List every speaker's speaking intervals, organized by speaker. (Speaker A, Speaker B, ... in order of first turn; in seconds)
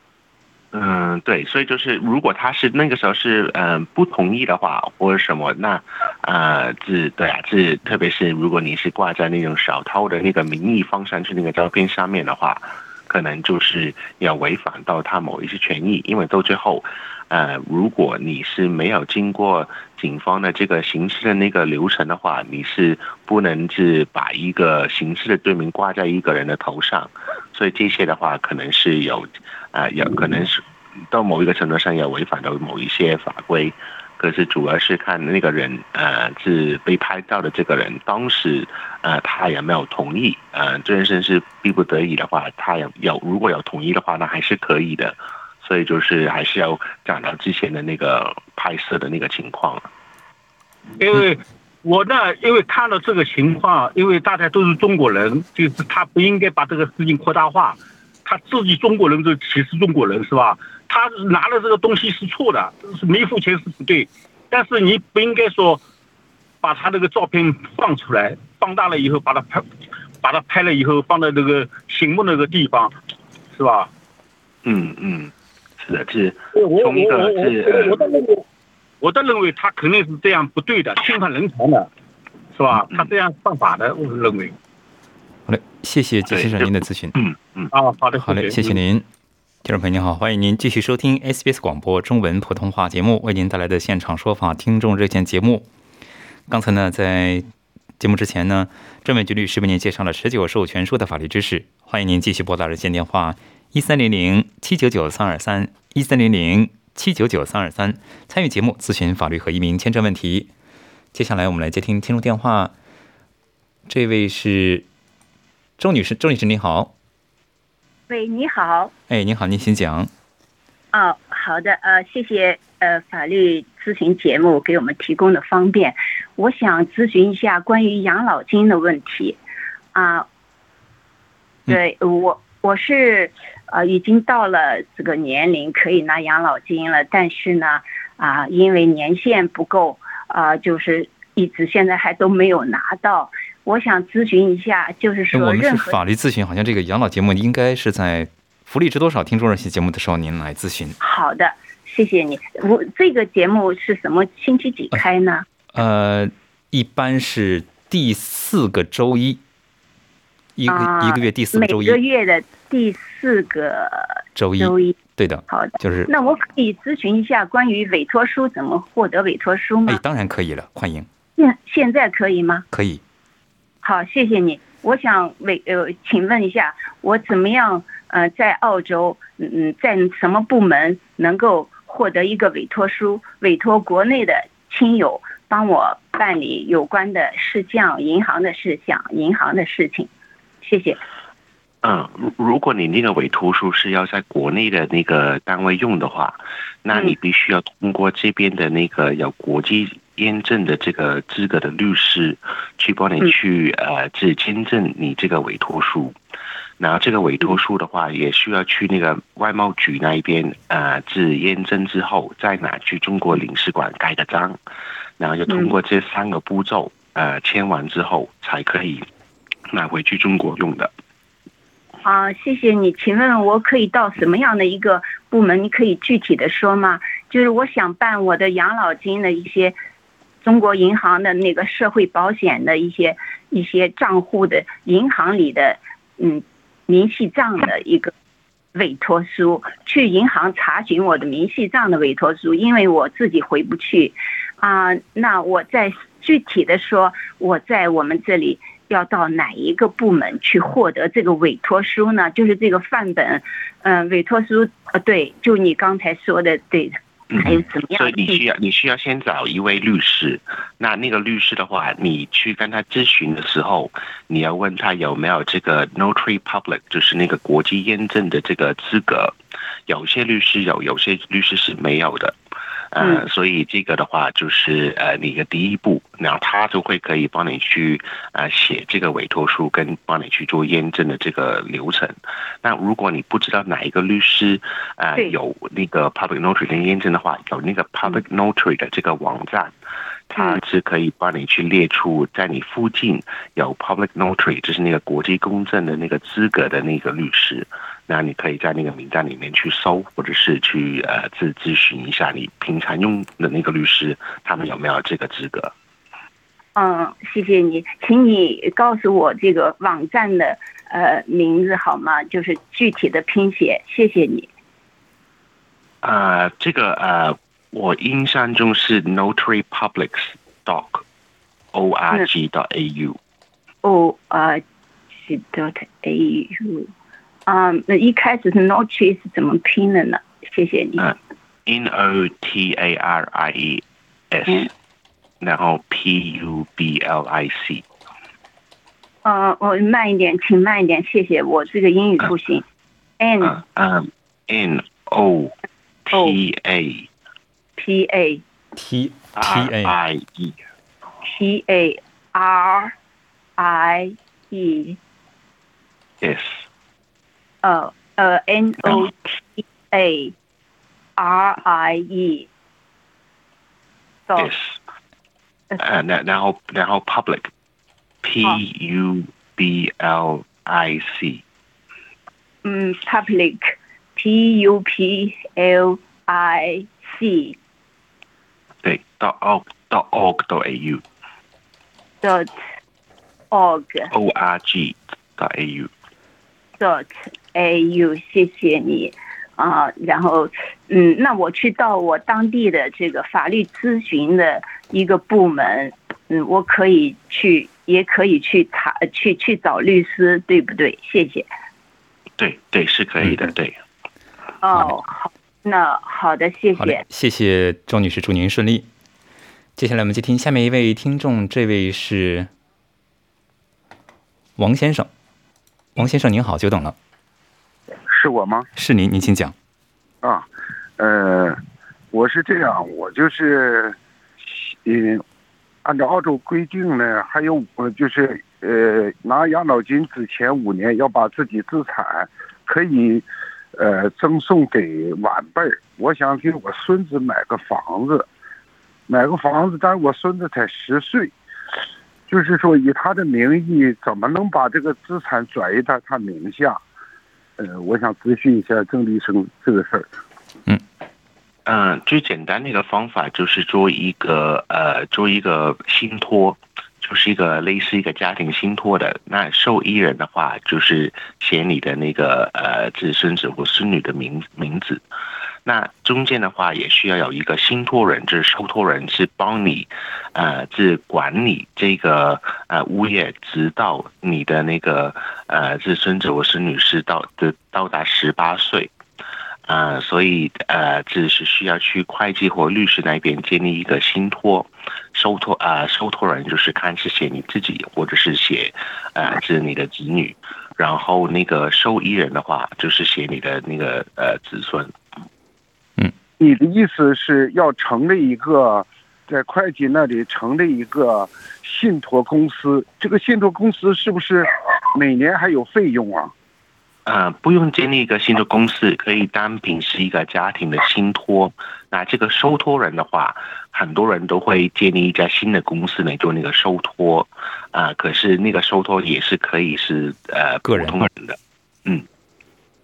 Speaker A: 0.7-49.9, 74.6-78.1, 82.8-83.1, 86.3-87.7, 191.8-206.1, 206.8-214.6, 215.2-219.1, 219.7-220.9, 257.3-269.3, 269.9-272.4, 272.9-289.7, 290.3-305.7, 316.0-321.0, 321.7-323.2, 331.0-334.7, 335.4-337.8, 343.4-345.5, 346.1-347.1, 349.4-350.6, 356.2-356.6, 364.4-364.8, 365.8-367.5, 368.2-371.4, 378.8-381.0, 384.1-385.9, 402.4-403.8, 451.6-465.0, 465.6-478.9, 479.7-494.9, 507.1-522.0
Speaker B: 51.0-65.8, 66.6-69.7, 70.2-72.9, 73.5-73.9, 76.5-78.4, 79.0-81.9, 82.5-84.5, 87.7-88.6
Speaker C: 85.5-87.1, 88.2-89.0, 89.6-95.7, 96.5-97.5, 98.0-110.5, 111.1-112.7, 113.9-114.8, 115.8-116.9, 119.1-120.1, 145.3-150.9, 155.8-159.4, 160.6-162.0, 164.3-166.1, 169.9-171.1, 172.7-173.0, 348.8-349.9, 406.8-408.9, 409.8-412.5, 414.6-415.1, 415.9-416.9, 418.8-419.5, 520.6-521.0
Speaker D: 118.1-118.9, 120.9-129.4, 129.9-130.2, 131.7-146.0, 151.0-155.4, 160.7-164.9, 165.5-170.0, 171.4-172.6, 173.8-190.1, 190.6-191.0, 215.5-215.7, 222.0-229.8, 230.4-238.1, 238.7-258.4, 306.8-314.5, 323.8-326.9, 327.5-331.1, 339.2-342.6, 343.2-343.6, 347.8-348.4, 351.2-352.9, 353.6-355.0, 357.6-360.3, 361.2-362.5, 372.6-377.6, 382.2-382.5, 383.5-384.1, 386.8-401.5, 404.6-407.0
Speaker E: 418.1-418.7, 420.2-420.5, 421.0-421.6, 422.1-425.2, 425.8-438.3, 439.1-441.3, 442.3-446.8, 447.6-450.1, 496.4-506.3